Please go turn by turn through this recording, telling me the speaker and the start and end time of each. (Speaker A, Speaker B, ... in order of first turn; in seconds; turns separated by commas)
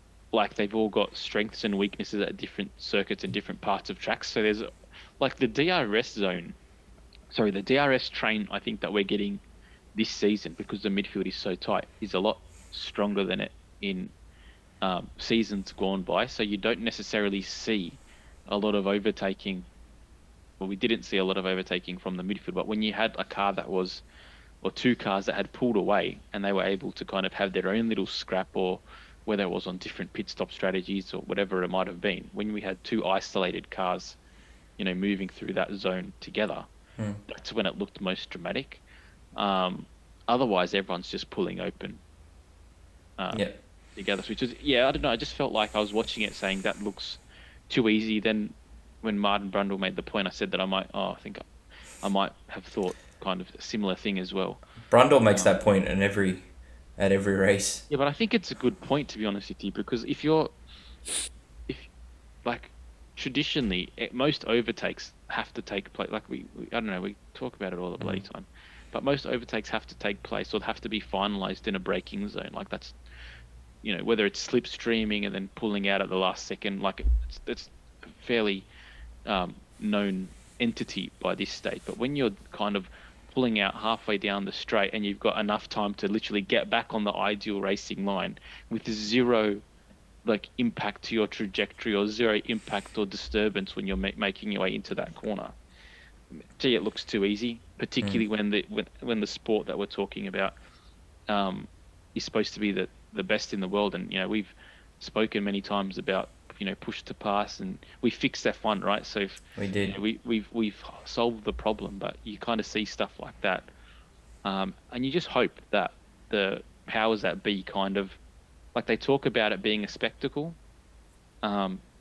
Speaker A: 0.3-6.6, Speaker A: 7.3-9.4, Speaker A: 9.9-14.1, Speaker A: 14.8-19.7, Speaker A: 20.6-24.0, Speaker A: 24.6-34.2, Speaker A: 34.8-36.7, Speaker B: 37.0-37.2, Speaker A: 37.3-38.8, Speaker A: 39.4-42.0, Speaker A: 43.2-51.5, Speaker A: 52.0-54.6, Speaker B: 54.9-57.9, Speaker A: 57.9-60.5, Speaker A: 62.5-73.0, Speaker B: 68.0-68.3, Speaker A: 73.8-78.7, Speaker A: 79.3-89.6, Speaker A: 90.2-95.6, Speaker A: 96.3-100.5, Speaker A: 101.3-113.7, Speaker B: 109.6-110.0, Speaker A: 114.4-118.2, Speaker A: 118.8-120.6, Speaker A: 121.4-121.8